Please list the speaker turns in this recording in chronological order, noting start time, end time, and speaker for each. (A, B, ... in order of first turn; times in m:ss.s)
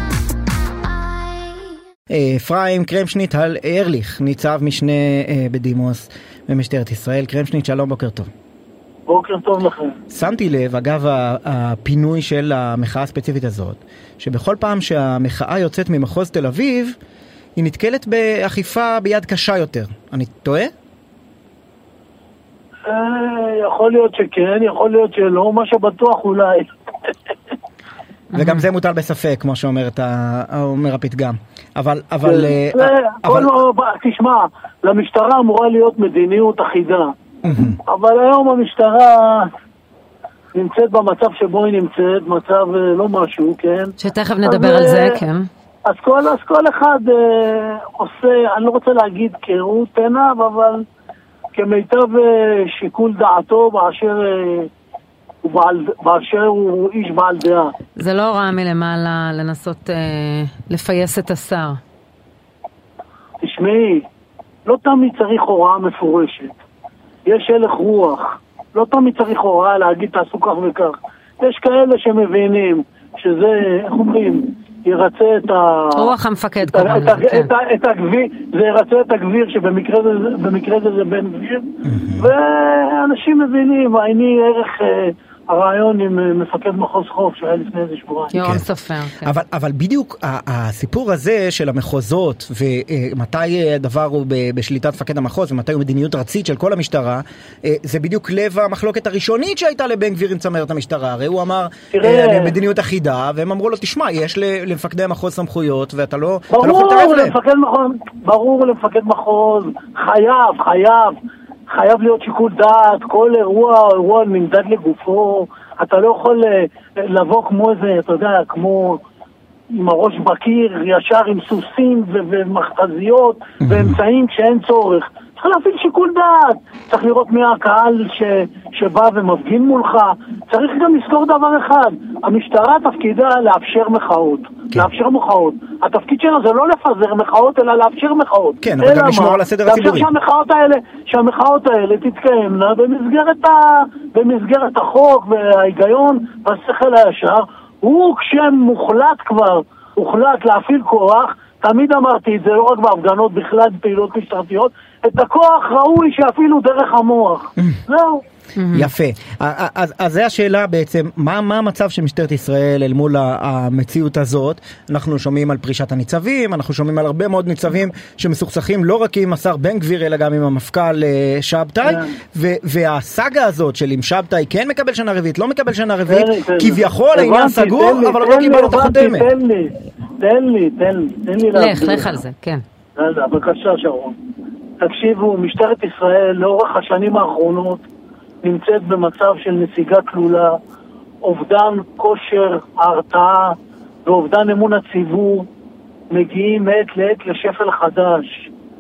0:02.1-0:08.3 A
0:09.1-0:10.0 B
0:10.1-0:17.0 A
0:17.6-0:20.7 A
0:22.9-0:26.7 B
0:28.3-0:28.6 C
0:28.3-0:33.5 A
0:32.2-0:37.1 B
0:37.4-0:37.8 A
0:37.8-0:39.5 B
0:40.5-0:45.2 B
0:44.0-0:45.5 C
0:45.8-0:50.8 B
0:51.5-0:54.7 B
0:55.4-0:57.7 B
0:58.0-1:01.8 C
1:03.4-1:04.0 B
1:04.6-1:06.5 B
1:07.3-1:16.1 B
1:15.9-1:17.5 C
1:16.6-1:28.4 B
1:21.8-1:22.3 A
1:28.3-1:29.3 C
1:28.4-1:28.6 A
1:29.2-1:47.4 A
1:41.9-1:42.5 B
1:46.5-1:51.2 B
1:51.7-1:59.0 B
1:59.7-2:38.2 B
2:03.6-2:04.0 A
2:18.6-2:20.1 A
2:38.6-2:38.9 C
2:38.7-2:59.3 A
2:51.8-2:52.1 B
2:56.1-3:02.2 B
3:01.5-3:02.6 C
3:03.0-3:04.2 B
3:04.8-3:07.8 B
3:08.4-3:10.6 B
3:11.2-3:15.5 B
3:16.1-3:18.5 B